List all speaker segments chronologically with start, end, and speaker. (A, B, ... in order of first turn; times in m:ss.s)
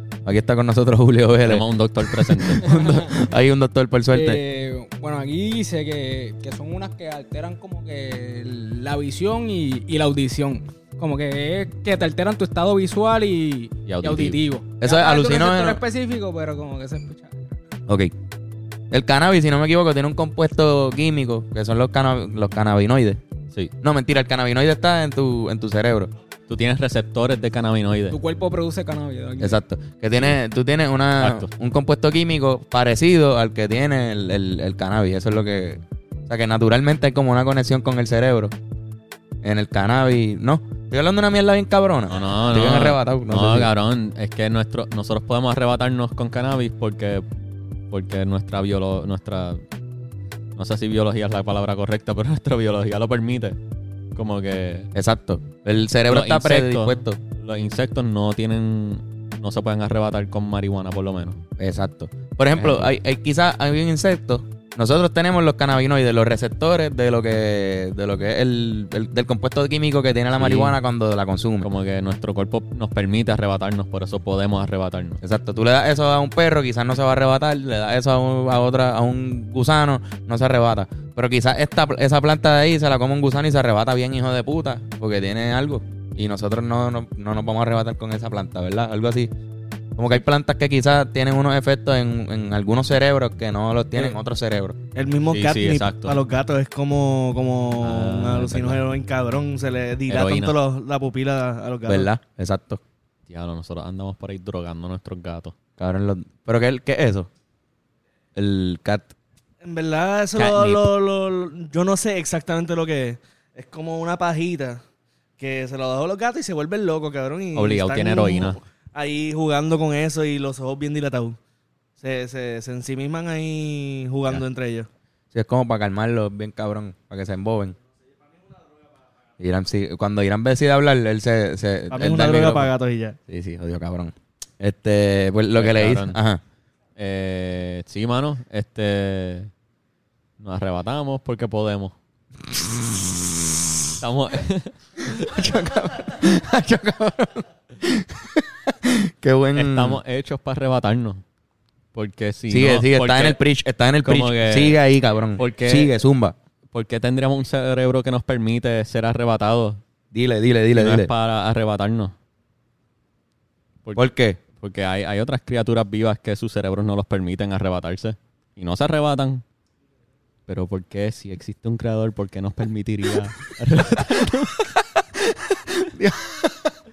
0:00.2-0:04.4 A
0:01.4-0:02.8 B
0:02.7-0:03.1 C
0:04.1-0:17.6 C
0:13.8-0:14.4 B
0:14.8-0:15.8 A
0:17.9-0:18.1 A
0:18.9-0:23.2 A
0:23.8-0:26.1 A
0:26.5-0:28.2 B
0:28.1-0:29.6 C
0:29.4-0:38.5 A
0:31.2-0:31.5 B
0:39.4-0:43.7 A
0:42.1-0:47.3 B
0:47.9-0:49.6 B
0:50.6-0:53.6 B
0:54.1-0:54.9 B
0:54.9-0:57.2 A
0:56.1-1:01.4 B
1:01.6-1:11.7 A
1:02.5-1:02.9 B
1:10.3-1:10.8 B
1:11.6-1:15.2 B
1:15.2-1:29.3 A
1:30.0-1:34.8 A
1:34.9-1:42.1 D
1:35.3-1:36.2 B
1:37.8-1:38.8 B
1:40.1-1:40.5 B
1:41.8-1:42.8 A
1:43.3-1:45.5 B
1:45.8-1:47.3 A
1:48.4-1:49.1 A
1:49.6-1:54.8 D
1:50.4-1:50.9 B
1:55.4-2:01.4 D
1:57.5-1:58.6 B
2:02.0-2:04.9 D
2:05.3-2:07.8 A
2:09.4-2:12.7 A
2:11.9-2:13.2 D
2:13.3-2:16.4 A
2:15.5-2:16.2 B
2:17.0-2:19.5 B
2:20.4-2:21.9 B
2:22.5-2:23.9 A
2:24.0-2:25.6 B
2:25.2-2:30.0 A
2:29.5-2:31.2 B
2:31.9-2:33.4 B
2:32.5-2:36.3 A
2:34.0-2:34.8 B
2:35.4-2:35.9 B
2:36.7-2:39.8 B
2:40.1-2:41.1 A
2:40.7-2:42.2 B
2:43.8-2:49.4 B
2:44.0-2:44.4 A
2:50.5-2:54.7 B
2:55.1-2:56.7 A